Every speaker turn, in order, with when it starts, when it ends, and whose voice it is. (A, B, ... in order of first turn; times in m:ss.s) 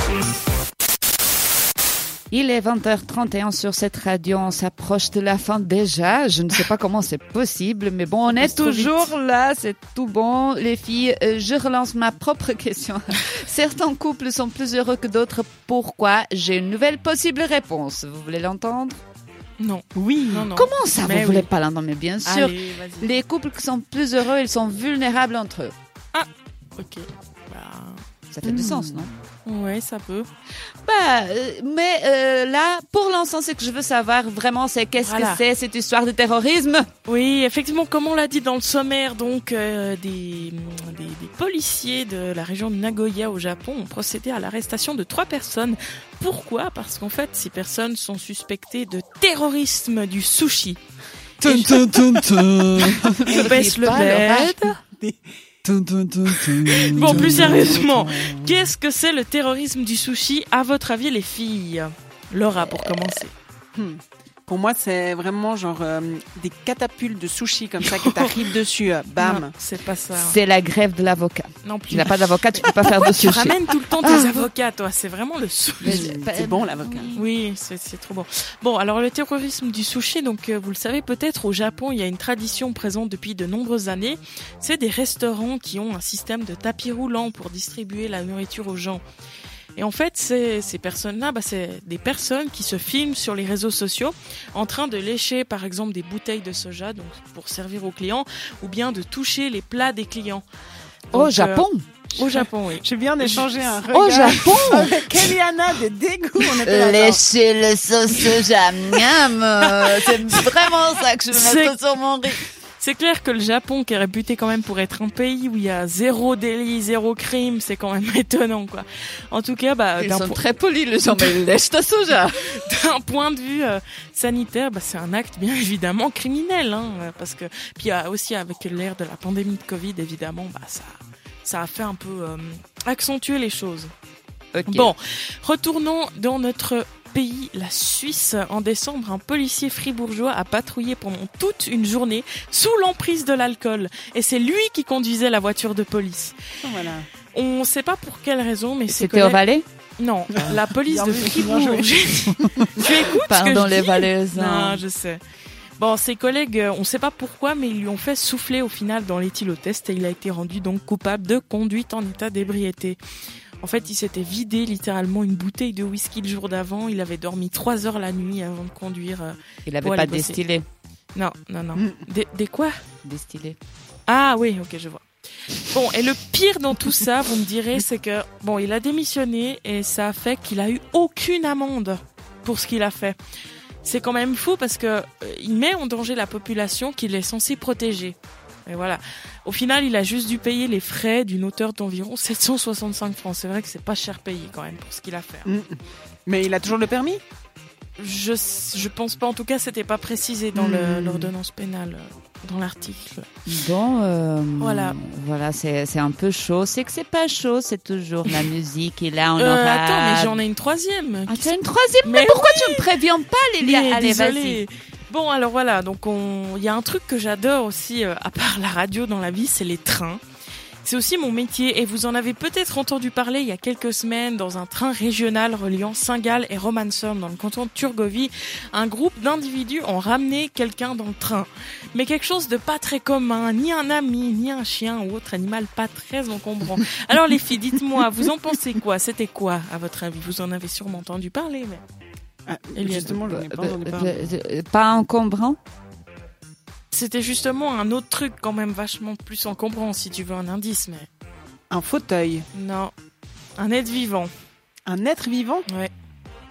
0:02.3-0:19.0 A
0:08.3-0:09.1 B
0:19.6-0:21.5 B
0:19.9-0:20.5 C
0:20.5-0:25.7 A
0:22.2-0:23.1 B
0:26.1-0:28.0 B
0:28.3-0:29.1 A
0:28.4-0:29.0 C
0:29.4-0:30.3 B
0:30.8-0:36.8 A
0:35.0-0:35.4 B
0:37.0-0:50.8 B
0:51.4-0:53.3 D
0:51.4-0:52.2 B
0:52.8-0:54.8 A
0:52.8-0:54.8 B
0:54.1-0:55.2 C
0:55.6-0:58.0 D
0:56.5-1:03.3 B
0:56.9-0:58.7 C
1:03.7-1:09.5 C
1:07.9-1:08.5 B
1:09.2-1:10.4 B
1:10.2-1:14.5 A
1:11.6-1:16.1 B
1:15.8-1:17.3 A
1:15.8-1:17.1 C
1:17.1-1:29.0 B
1:29.8-1:40.4 B
1:41.1-1:41.8 A
1:41.1-1:43.7 B
1:42.2-1:47.2 C
1:43.9-1:45.3 A
1:46.6-1:52.4 A
1:49.8-1:50.4 B
1:51.3-1:51.8 B
1:52.8-2:00.4 B
2:00.0-2:02.6 A
2:01.0-2:01.4 B
2:02.2-2:13.9 B
2:14.5-2:14.9 A
2:14.7-2:26.4 B
2:26.6-2:27.1 C
2:27.3-2:29.4 B
2:28.9-2:29.6 A
2:30.0-2:35.2 B
2:30.5-2:32.8 C
2:33.2-2:34.8 A
2:35.8-2:43.0 B
2:43.6-2:50.4 B
2:49.6-2:50.6 A
2:51.1-2:52.8 B
2:51.7-2:52.0 C
2:53.0-2:53.6 A
2:54.1-2:55.0 B
2:55.6-3:03.2 B
3:03.8-3:15.5 B
3:15.4-3:17.2 C
3:18.0-3:23.3 B
3:20.5-3:21.3 C
3:23.4-3:30.4 A
3:24.6-3:25.0 B
3:29.4-3:32.9 B
3:31.3-3:34.6 A
3:33.6-3:40.2 B
3:40.8-4:01.8 B
4:02.4-4:04.3 C
4:02.8-4:03.2 B
4:03.1-4:05.6 A
4:06.9-4:11.1 B
4:11.7-4:12.4 C
4:12.5-4:12.9 B
4:13.6-4:14.3 B
4:14.8-4:15.6 C